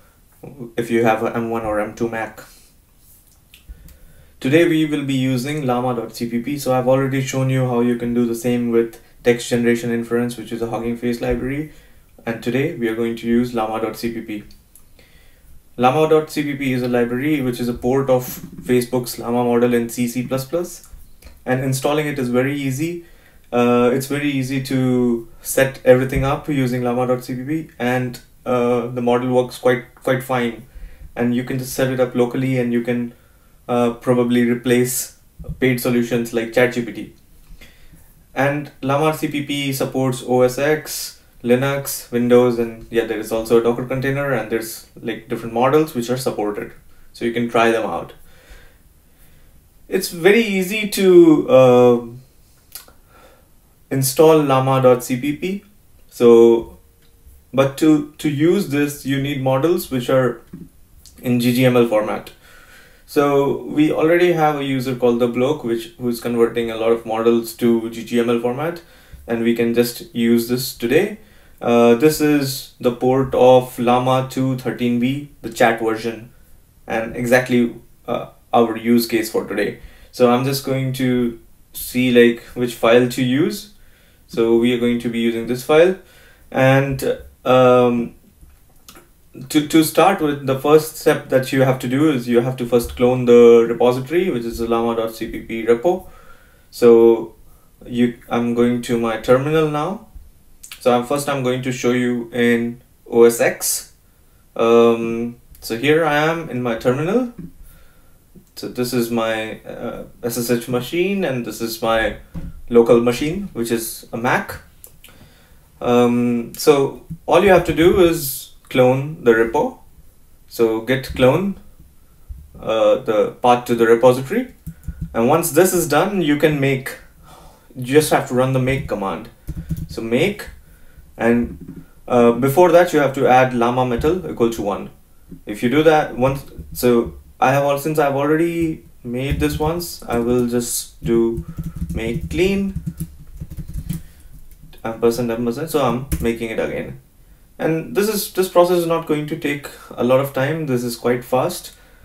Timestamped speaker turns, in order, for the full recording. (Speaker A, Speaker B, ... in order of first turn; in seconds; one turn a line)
Speaker A: 0.4-2.4
Speaker A: 4.4-11.7
Speaker A: 12.3-14.4
Speaker A: 15.8-20.8
Speaker A: 21.4-33.1
Speaker A: 33.7-37.1
Speaker A: 38.3-48.2
Speaker A: 49.9-52.2
Speaker A: 53.9-56.8
Speaker A: 57.5-60.4
Speaker A: 61.2-62.4
Speaker A: 63.0-76.3
Speaker A: 76.9-83.7
Speaker A: 84.3-86.0
Speaker A: 86.5-88.1
Speaker A: 89.5-96.1
Speaker A: 96.7-97.3
Speaker A: 97.8-100.0
Speaker A: 100.8-103.9
Speaker A: 104.5-107.3
Speaker A: 108.5-112.2
Speaker A: 112.7-114.6
Speaker A: 115.8-119.8
Speaker A: 120.5-121.6
Speaker A: 122.6-124.5
Speaker A: 125.1-129.3
Speaker A: 129.9-130.5
Speaker A: 131.2-134.9
Speaker A: 135.5-141.4
Speaker A: 141.9-142.8
Speaker A: 144.8-147.0
Speaker A: 147.6-151.7